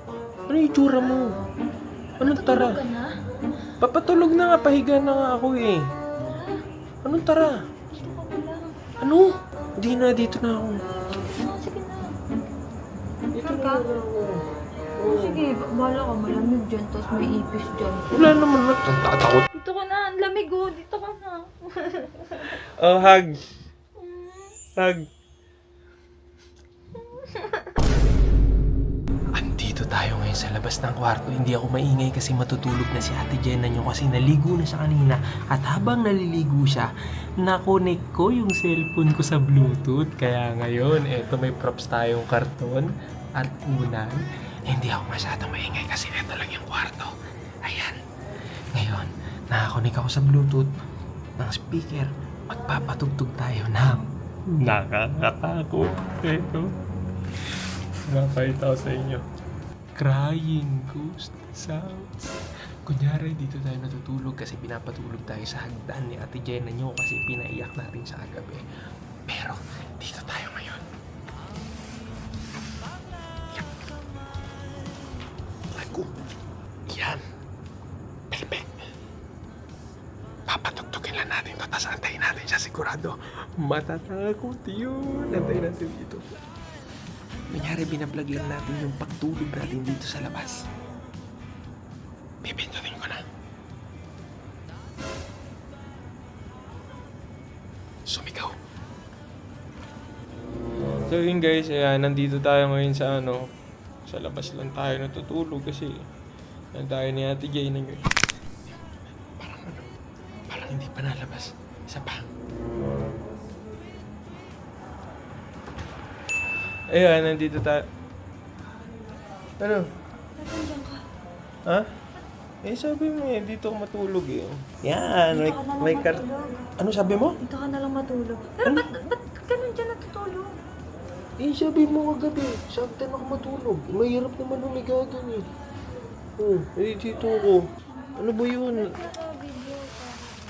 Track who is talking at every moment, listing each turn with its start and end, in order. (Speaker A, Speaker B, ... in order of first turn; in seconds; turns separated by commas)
Speaker A: 0.5-1.2, Speaker A: 2.2-2.8, Speaker B: 2.2-3.1, Speaker A: 3.8-5.8, Speaker B: 6.2-6.6, Speaker A: 7.0-7.6, Speaker B: 7.9-8.7, Speaker A: 9.0-10.8, Speaker B: 11.0-12.1, Speaker A: 13.3-14.4, Speaker B: 13.4-13.9, Speaker A: 15.0-15.4, Speaker B: 15.0-18.1, Speaker A: 18.1-19.4, Speaker B: 19.5-22.6, Speaker A: 22.8-23.4, Speaker B: 24.0-24.6, Speaker A: 24.8-25.0, Speaker B: 27.0-27.8, Speaker A: 29.4-36.9, Speaker A: 37.4-48.0, Speaker A: 48.7-50.7, Speaker A: 51.4-56.7, Speaker A: 58.1-59.2, Speaker A: 60.0-62.3, Speaker A: 62.9-68.6, Speaker A: 69.3-70.8, Speaker A: 75.7-76.1, Speaker A: 76.9-77.2, Speaker A: 78.3-78.8, Speaker A: 80.5-86.3, Speaker A: 87.5-90.7, Speaker A: 92.4-93.2, Speaker A: 98.1-98.6, Speaker A: 101.1-103.5, Speaker A: 104.0-106.1, Speaker A: 106.7-108.1, Speaker A: 109.3-109.9, Speaker A: 110.5-112.3, Speaker A: 116.9-117.9, Speaker A: 119.6-119.9, Speaker B: 120.4-121.0, Speaker A: 122.6-126.2, Speaker B: 125.3-126.7, Speaker A: 126.8-127.4, Speaker B: 127.4-130.6, Speaker A: 128.6-128.9, Speaker A: 131.4-135.4, Speaker A: 136.4-137.7, Speaker B: 137.9-138.2, Speaker A: 138.2-138.9, Speaker B: 138.7-140.3